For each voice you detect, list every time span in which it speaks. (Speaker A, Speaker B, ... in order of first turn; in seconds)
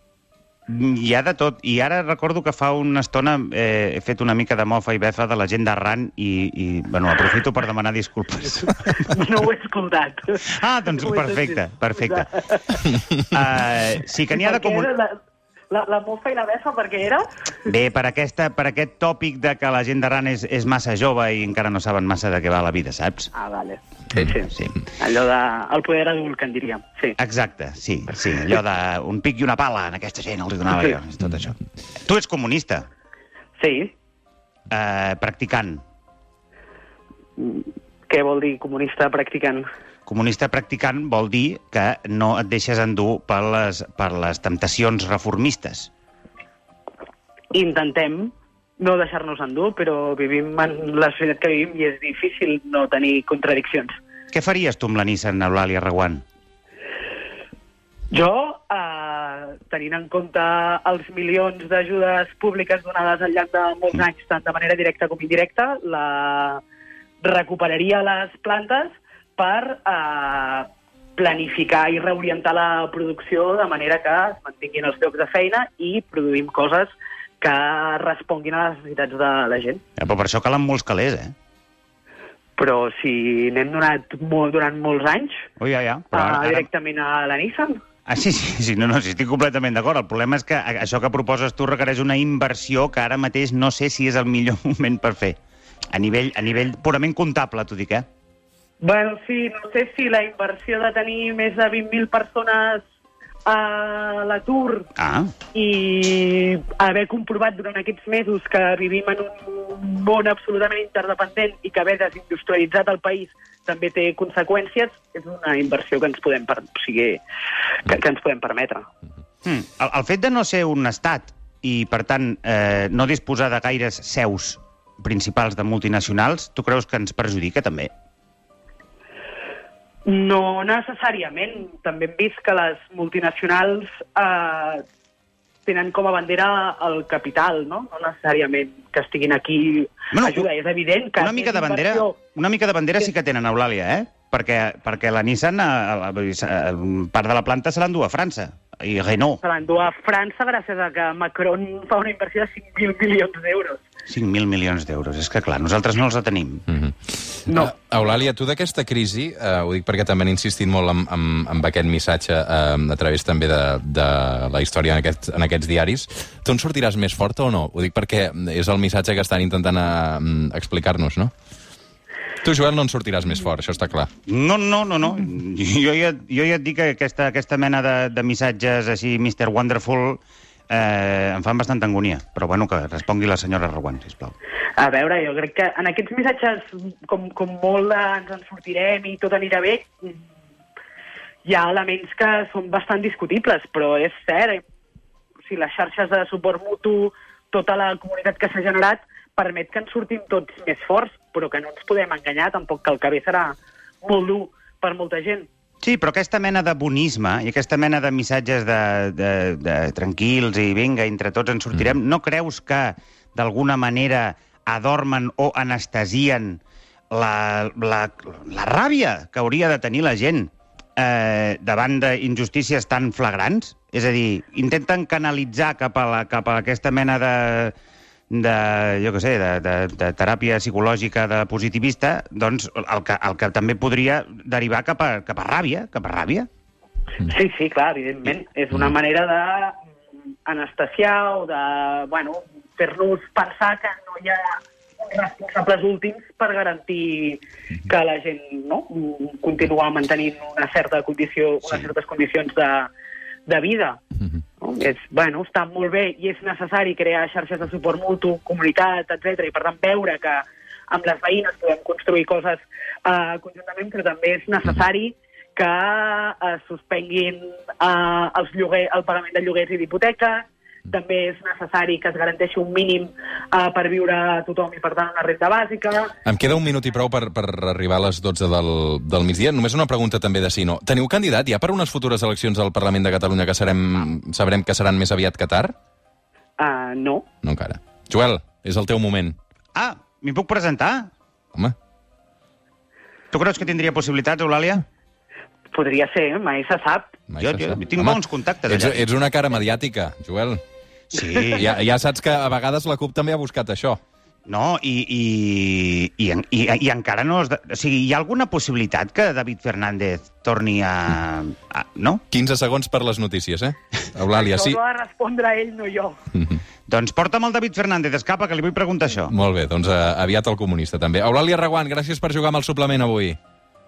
Speaker A: 0.7-9.1, 10.4-14.9, 17.6-23.3, 27.2-32.9, 34.7-35.8, 40.1-45.9, 54.3-56.2, 80.0-81.3, 85.6-86.7, 88.1-95.4, 95.9-98.1, 105.0-105.3, 119.4-127.9, 140.1-140.5, 141.2-149.4, 154.1-156.7, 174.3-184.3, 205.8-227.8, 228.3-236.5, 289.8-291.1, 293.3-294.9, 297.4-299.1, 301.1-301.8, 304.5-312.2, 316.9-319.3
Speaker B: 9.0-12.8, 14.3-15.2, 15.7-17.3, 23.3-27.2, 33.6-33.9, 37.4-39.7, 47.5-54.0, 58.1-66.6, 67.2-79.8, 82.6-85.5, 86.1-87.8, 98.8-102.8, 103.5-104.9, 105.5-117.2, 117.8-118.9, 130.1-134.8, 135.7-142.2, 149.4-153.8, 157.5-157.7, 184.8-190.2, 191.4-194.6, 195.5-205.5, 237.2-239.8, 240.4-252.9, 253.5-254.0, 254.6-276.1, 286.6-287.3, 295.7-297.2, 314.3-316.2
Speaker C: 156.7-171.3, 172.4-174.1, 276.2-285.8, 287.4-289.4, 297.3-300.6, 301.5-304.0, 312.3-314.8, 319.3-323.4